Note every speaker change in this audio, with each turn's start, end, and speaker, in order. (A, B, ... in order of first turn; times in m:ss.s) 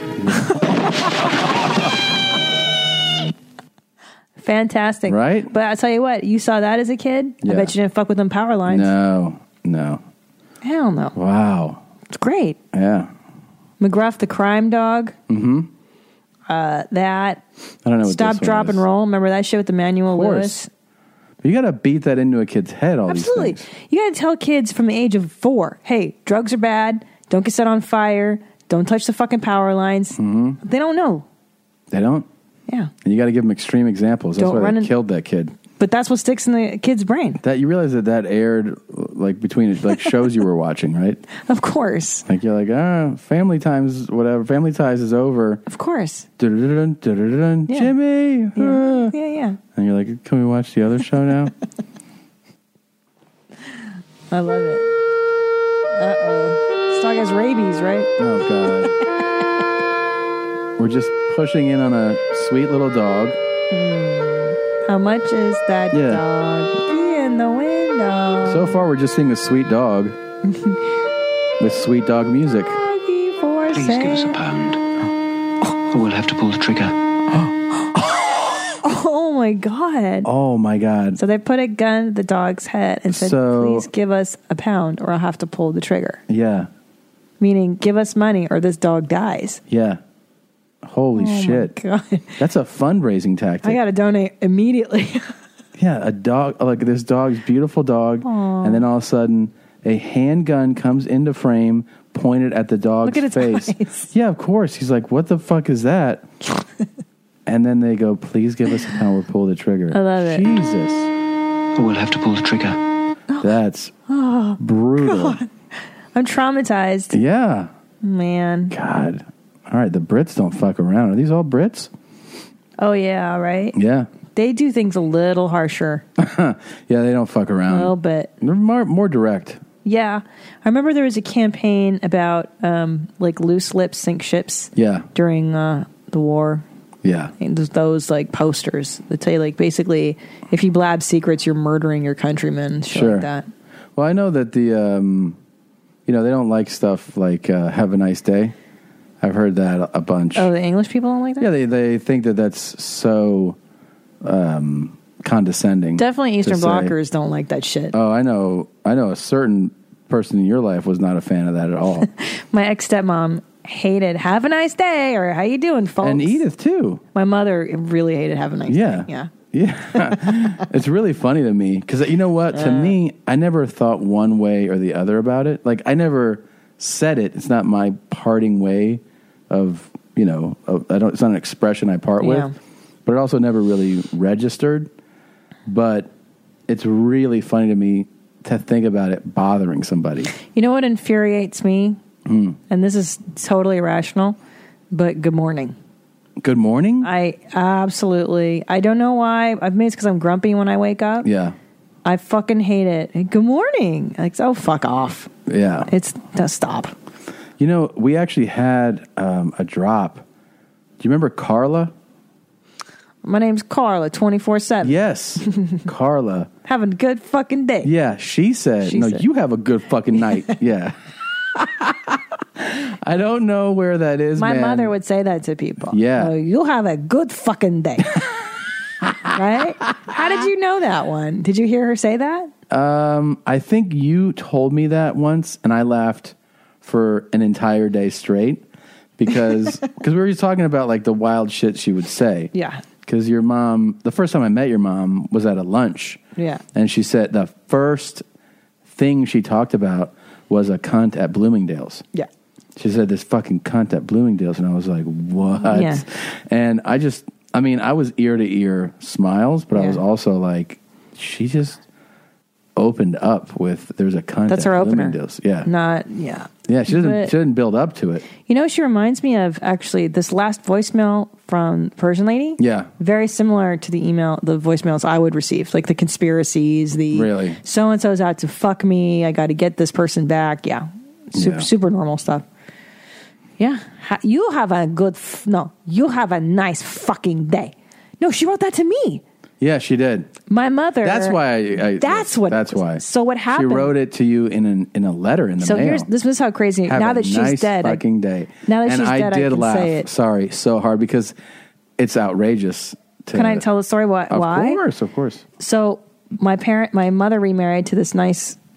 0:00.2-0:00.5 A
0:04.4-0:08.9 B
0:05.1-0:05.5 A
0:07.4-0:07.7 A
0:08.7-0:10.0 A
0:10.6-0:11.2 B
0:11.1-0:11.8 A
0:12.1-0:12.6 B
0:12.7-0:13.1 A
0:13.8-0:15.1 B
0:15.3-0:15.7 A
0:16.5-0:17.4 B
0:17.8-0:18.8 A
0:18.0-0:20.7 B
0:20.1-0:20.6 A
0:21.4-0:23.6 A
0:23.1-0:31.2 B
0:30.2-0:30.6 A
0:31.9-0:32.3 A
0:33.0-0:35.5 A
0:34.4-0:34.9 B
0:35.8-0:37.4 B
0:37.4-0:41.2 A
0:41.4-0:42.2 B
0:42.3-0:45.6 A
0:45.7-0:46.3 B
0:46.4-0:49.1 A
0:48.6-0:49.6 B
0:49.7-0:51.5 A
0:54.3-0:54.9 B
0:55.9-0:58.1 B
0:58.2-0:58.9 A
1:00.8-1:03.4 A
1:03.7-1:08.8 B
1:05.9-1:06.2 A
1:08.4-1:10.2 A
1:10.4-1:10.8 B
1:11.6-1:12.8 A
1:12.8-1:14.4 B
1:13.7-1:14.8 C
1:15.9-1:16.9 C
1:18.8-1:20.3 B
1:20.2-1:21.2 A
1:21.2-1:26.2 B
1:23.1-1:23.9 A
1:26.3-1:26.7 A
1:27.4-1:29.6 B
1:29.7-1:30.0 A
1:30.8-1:31.7 A
1:31.2-1:32.3 B
1:32.4-1:33.8 A
1:33.6-1:35.3 B
1:35.8-1:46.3 A
1:38.2-1:38.8 B
1:43.0-1:44.1 B
1:47.4-1:51.1 A
1:49.9-1:50.4 B
1:51.7-1:52.8 C
1:53.4-1:53.9 A
1:54.1-1:55.5 B
1:54.6-1:55.4 A
1:56.1-1:57.1 B
1:57.1-1:57.7 A
1:58.0-1:58.7 B
1:58.7-2:01.9 A
2:02.8-2:03.8 B
2:03.7-2:04.1 A
2:04.3-2:06.0 B
2:06.2-2:09.6 A
2:07.7-2:08.3 B
2:09.8-2:16.6 B
2:14.7-2:15.1 A
2:17.0-2:17.3 A
2:17.4-2:23.5 B
2:22.9-2:23.3 A
2:24.0-2:25.4 A
2:26.0-2:28.5 A
2:29.2-2:30.5 A
2:30.3-2:31.5 B
2:31.4-2:33.6 A
2:34.2-2:36.9 A
2:36.0-2:38.0 B
2:37.9-2:42.1 A
2:42.1-2:46.4 B
2:46.0-2:47.0 A
2:47.1-2:49.3 B
2:48.7-3:02.5 A
2:49.9-2:50.3 B
2:52.5-2:53.0 B
3:02.2-3:02.5 B
3:03.0-3:04.9 A
3:05.7-3:06.1 A
3:06.7-3:10.3 A
3:10.4-3:12.0 B
3:12.2-3:12.6 A
3:12.7-3:14.4 B
3:14.9-3:15.7 B
3:16.4-3:17.1 A
3:17.0-3:21.3 B
3:21.2-3:21.6 A
3:22.0-3:25.3 B
3:25.5-3:25.9 A
3:25.9-3:26.9 B
3:27.6-3:30.2 A
3:31.0-3:31.9 A
3:33.2-3:34.9 B
3:34.8-3:36.5 A
3:36.6-3:37.9 B
3:37.8-3:41.0 A
3:38.8-3:39.2 B
3:41.6-3:44.9 A
3:44.4-3:48.2 B
3:45.9-3:46.3 A
3:49.3-3:52.5 B
3:52.7-3:58.6 A
3:59.2-4:02.5 A
4:02.5-4:02.8 B
4:03.0-4:06.2 A
4:06.4-4:06.6 B
4:06.7-4:08.2 A
4:08.9-4:12.0 A
4:12.8-4:21.8 A
4:15.7-4:16.0 B
4:19.7-4:20.0 B
4:22.8-4:25.7 A
4:24.5-4:27.3 B
4:26.7-4:28.3 A
4:28.4-4:42.4 B
4:32.6-4:32.9 A
4:37.1-4:37.6 A
4:41.3-4:41.7 A
4:43.6-4:49.2 B
4:49.6-4:50.3 A
4:50.5-4:51.4 B
4:51.0-4:56.1 A
4:52.0-4:53.9 B
4:55.6-4:58.0 B
4:56.9-5:01.3 A
4:58.6-5:00.1 B
5:02.0-5:03.6 A
5:03.3-5:04.8 B
5:04.3-5:05.4 A
5:05.6-5:08.6 B